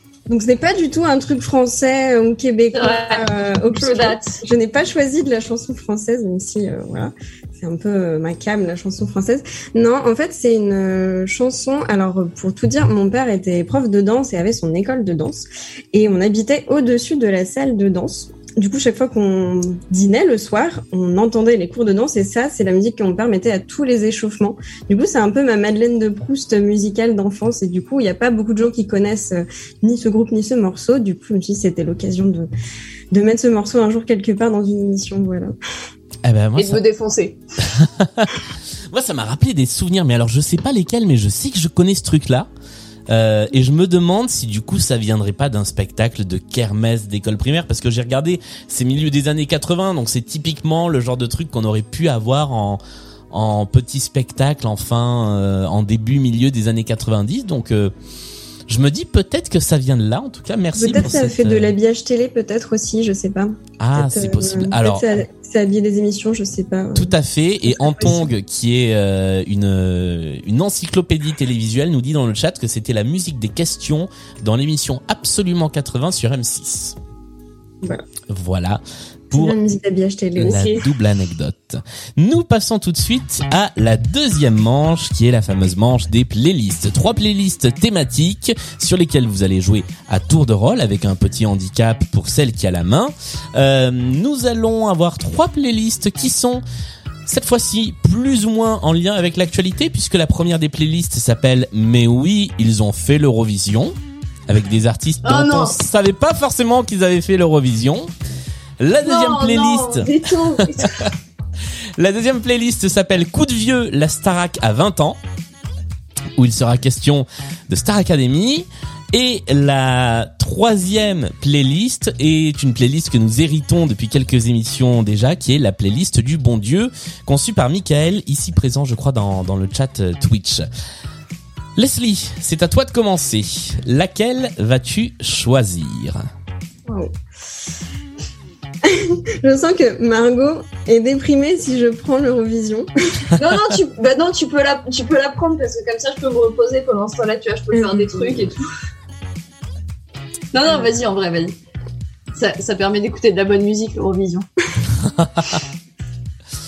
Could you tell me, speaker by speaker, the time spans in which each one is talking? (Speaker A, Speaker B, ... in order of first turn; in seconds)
Speaker A: 0.3-32.5, 33.1-35.5, 60.8-68.3, 79.3-80.7, 138.8-143.3, 147.7-148.5
Speaker B: 2.7-4.4, 36.6-37.4, 80.4-80.8, 105.2-105.8, 109.0-111.0, 143.4-148.7, 150.5-151.6, 152.3-154.5
Speaker C: 36.2-36.8, 37.6-38.4, 38.9-42.5, 43.1-52.8, 53.3-57.9, 58.7-61.7, 63.8-65.1, 67.0-77.0, 78.3-79.6, 80.4-96.6, 97.2-104.0, 104.5-108.1, 108.8-111.1, 112.0-115.2, 116.4-130.7, 131.8-136.2, 155.1-155.6